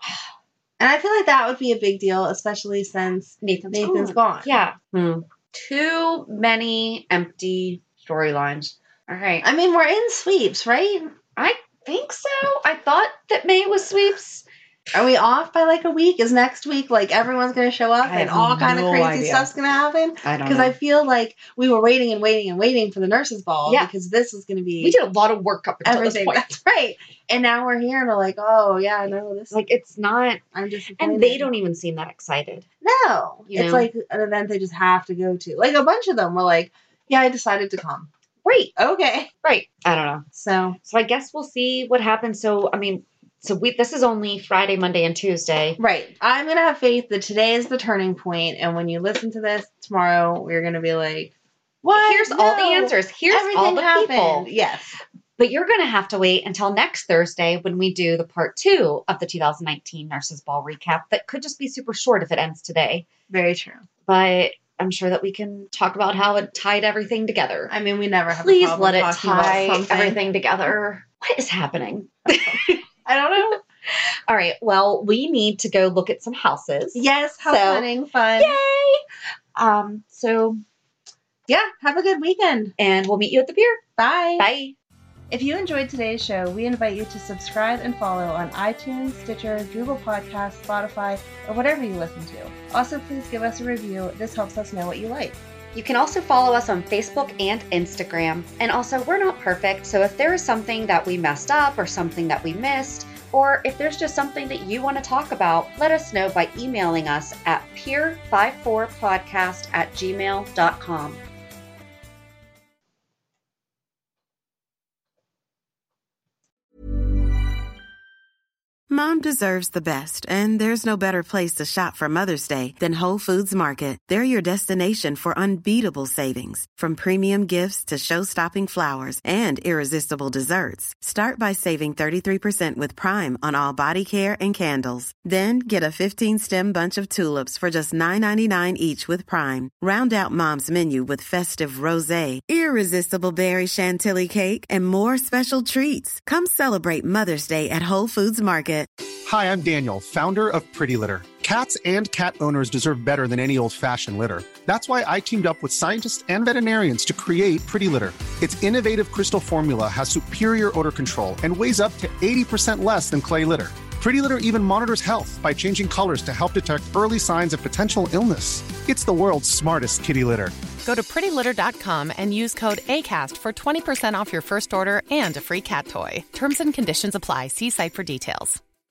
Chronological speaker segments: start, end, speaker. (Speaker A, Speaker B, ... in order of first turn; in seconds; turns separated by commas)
Speaker A: 0.8-4.5, Speaker B: 3.4-9.4, Speaker A: 9.4-11.1, Speaker B: 11.3-14.4, Speaker A: 14.9-25.0, Speaker B: 18.0-19.5, Speaker B: 20.2-20.8, Speaker B: 24.8-26.5, Speaker A: 25.9-29.5, Speaker B: 29.5-30.4, Speaker A: 30.5-31.5, Speaker B: 31.0-32.6, Speaker A: 32.8-38.1, Speaker B: 33.5-33.9, Speaker B: 38.4-38.7, Speaker A: 38.8-39.3, Speaker B: 39.4-40.2, Speaker A: 40.3-40.8, Speaker B: 40.8-45.8, Speaker A: 45.8-55.0, Speaker B: 51.9-54.5, Speaker B: 55.4-63.0, Speaker A: 63.3-63.8, Speaker B: 64.1-67.7, Speaker A: 67.7-70.2, Speaker B: 68.3-72.8, Speaker A: 72.3-73.6, Speaker B: 74.3-79.0, Speaker A: 76.9-78.6, Speaker B: 79.5-80.6, Speaker A: 81.5-82.7, Speaker B: 82.8-83.8, Speaker A: 84.0-84.5, Speaker B: 84.4-84.7, Speaker A: 85.3-95.4, Speaker B: 95.7-111.2, Speaker C: 118.9-148.9, Speaker D: 149.2-170.5, Speaker E: 170.8-178.6